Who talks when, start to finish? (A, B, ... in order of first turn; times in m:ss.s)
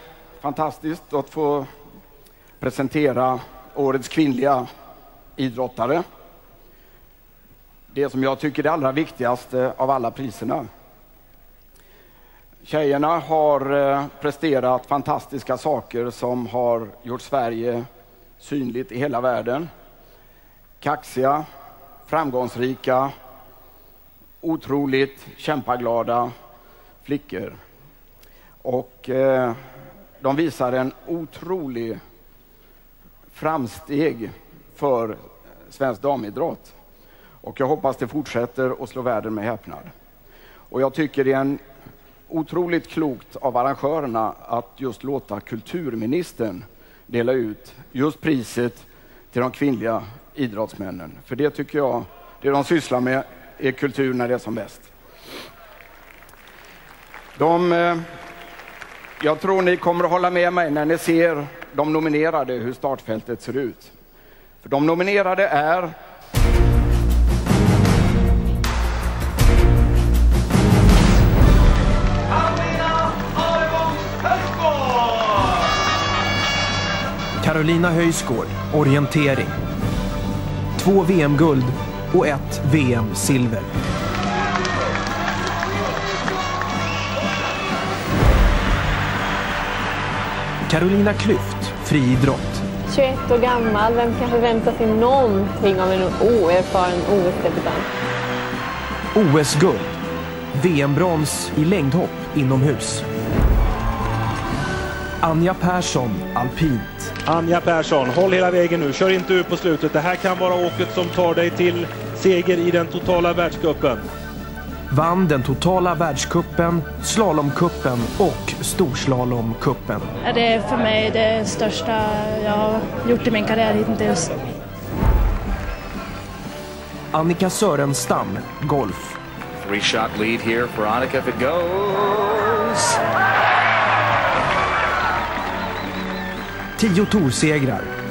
0:00.4-0:01.7 A
0:02.6-0:04.6 A
0:05.4-0:06.0 A
0:07.9-0:10.6 A
0:12.6-0:17.9 A
0:18.4-0:19.7 A
0:20.8-0:21.4 A
0:22.1-0:23.1 A
0:24.4-0:26.3 A
0:27.0-0:27.6 A
0:28.6-0:29.6 A
0:30.2-0:32.0 A
0:33.3-0:36.8 A
0:37.4-0:39.9 A
0:40.7-0:41.6 A
0:42.3-0:54.9 A
0:57.4-0:58.0 A
0:59.2-1:03.9 A
1:04.6-1:05.9 A
1:17.4-1:19.6 B
1:20.8-1:23.7 B
1:30.7-1:32.6 B
1:32.9-1:37.9 C
1:39.1-1:40.0 B
1:40.5-1:43.0 B
1:45.2-1:47.1 B
1:47.3-1:54.0 D
1:54.9-2:00.1 B
2:00.2-2:04.4 E
2:07.1-2:09.2 B
2:09.6-2:13.0 F
2:16.8-2:17.9 B